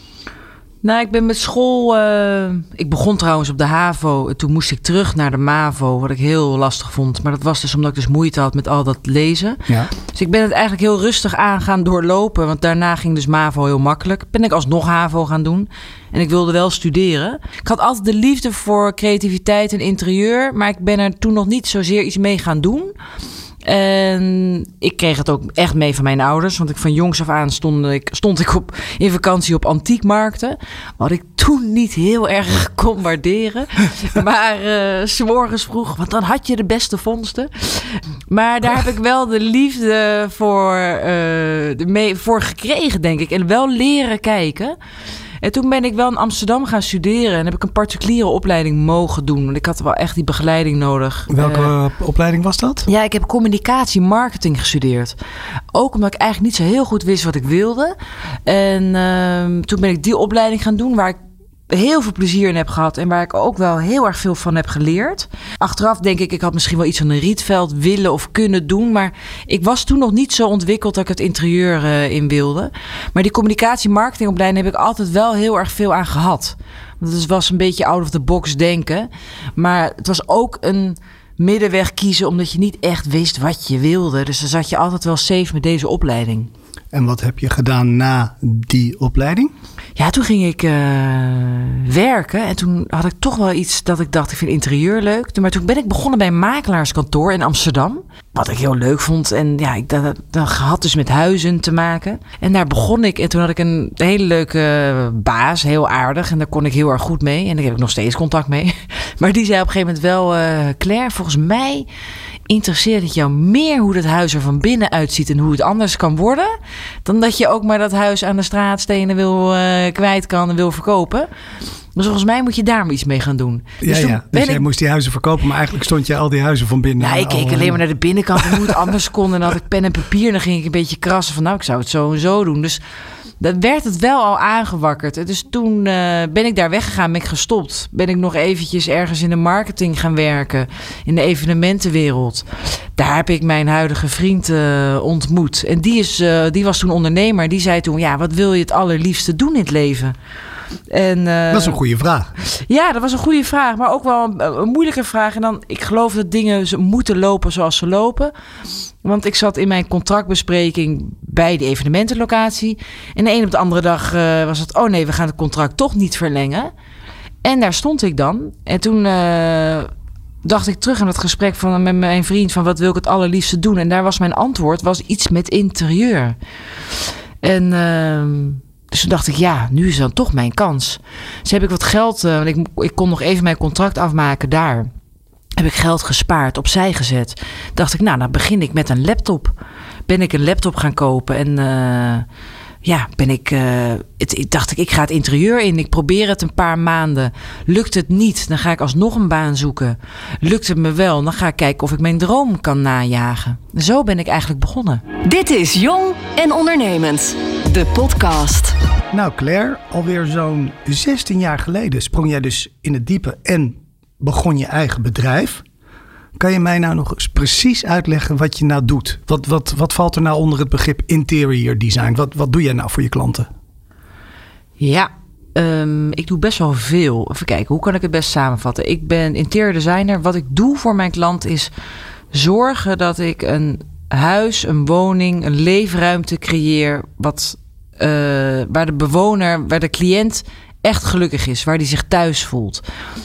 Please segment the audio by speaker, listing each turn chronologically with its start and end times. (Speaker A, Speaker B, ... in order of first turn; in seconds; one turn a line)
Speaker A: 0.8-22.9
Speaker A: 23.6-44.8
Speaker A: 45.4-51.7
Speaker B: 51.3-52.9
Speaker A: 52.9-55.1
Speaker A: 55.7-57.9
Speaker A: 58.5-61.2
Speaker A: 61.7-86.5
Speaker B: 86.9-89.5
Speaker A: 90.0-111.9
Speaker A: 112.5-116.5
Speaker A: 117.0-121.3
Speaker A: 121.9-124.6
Speaker B: 123.8-127.8
Speaker A: 127.0-132.8
Speaker B: 128.3-128.9
Speaker A: 133.4-142.4
Speaker A: 143.0-150.1
Speaker A: 150.9-151.8
Speaker B: 151.5-152.3
Speaker A: 152.4-158.3
Speaker A: 159.0-166.7
Speaker A: 167.4-169.9
Speaker A: 170.4-176.4
Speaker A: 177.4-184.9
Speaker A: 185.6-189.5
Speaker A: 190.1-192.2
Speaker A: 192.8-205.0
Speaker C: 205.2-208.7
Speaker B: 209.1-215.6
Speaker B: 216.4-223.5
Speaker A: 224.8-231.7
Speaker A: 232.3-242.8